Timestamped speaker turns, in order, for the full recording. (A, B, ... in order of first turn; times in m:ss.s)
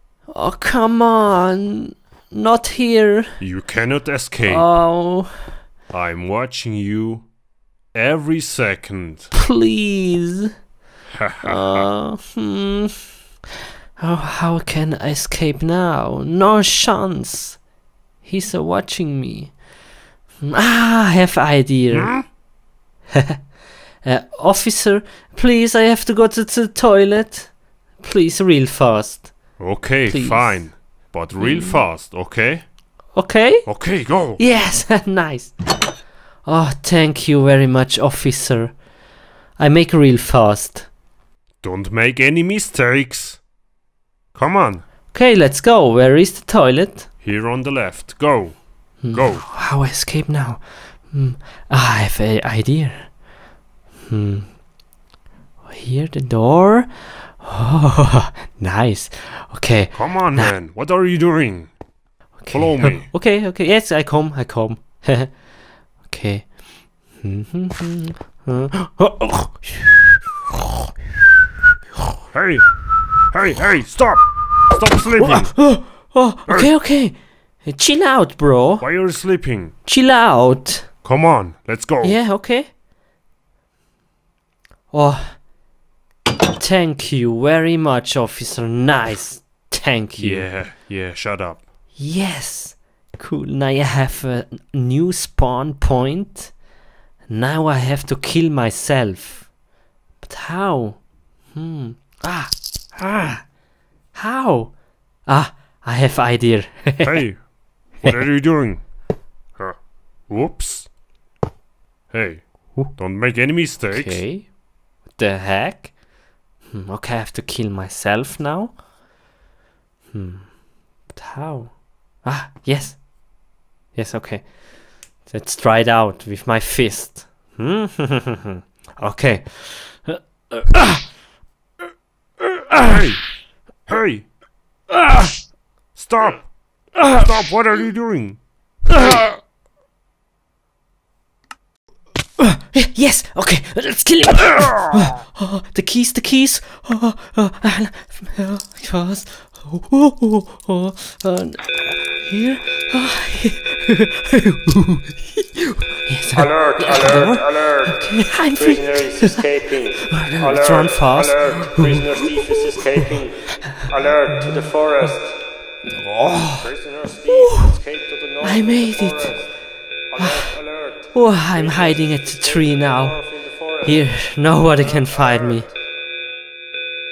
0:00.3-0:03.3 A
0:03.4-0:04.7 B
0:04.4-0:05.3 A
0:05.9-0:07.3 B
0:07.9-0:09.3 B
0:09.3-0:10.5 A
0:11.1-0:11.8 B
0:11.4-0:12.9 A
0:14.0-0:17.6 A
0:18.2-0:19.6 A
0:20.4-0:22.2 A
0:21.9-0:22.2 B
0:24.0-0:31.8 A
0:29.6-0:32.7 B
0:33.1-0:38.8 A
0:33.6-0:34.4 B
0:39.6-0:40.9 A
0:41.6-0:43.4 B
0:44.3-0:44.8 B
0:45.1-0:47.1 A
0:47.2-0:49.4 B
0:49.0-0:53.2 A
0:54.1-0:54.6 A
0:55.6-1:00.5 A
0:59.9-1:01.7 B
1:02.4-1:05.4 A
1:02.5-1:03.1 B
1:06.0-1:10.1 A
1:12.3-1:15.8 B
1:15.2-1:18.9 A
1:18.8-1:19.7 B
1:19.8-1:20.9 A
1:21.0-1:22.2 B
1:22.0-1:22.7 A
1:24.9-1:25.4 A
1:26.5-1:30.5 A
1:30.2-1:31.7 B
1:32.0-1:36.6 A
1:37.3-1:39.5 A
1:40.2-1:43.5 A
1:44.1-1:47.4 A
1:47.0-1:48.9 B
1:49.6-1:50.9 B
1:52.1-1:54.2 B
1:53.9-1:55.9 A
1:56.7-1:58.8 A
2:00.1-2:00.6 A
2:01.1-2:03.0 A
2:03.9-2:04.6 A
2:05.2-2:11.1 A
2:12.4-2:12.9 A
2:12.8-2:13.3 B
2:13.8-2:14.3 B
2:14.9-2:15.4 A
2:15.9-2:18.4 B
2:18.9-2:19.4 A
2:22.4-2:39.4 A
2:36.3-2:45.4 C
2:40.0-2:43.1 A
2:43.7-2:45.1 A
2:45.9-2:46.8 A
2:46.6-2:49.6 C
2:47.3-2:47.8 A
2:48.4-2:49.5 A
2:50.1-2:54.1 C
2:50.2-2:50.6 A
2:51.1-2:55.7 A
2:54.8-2:55.7 C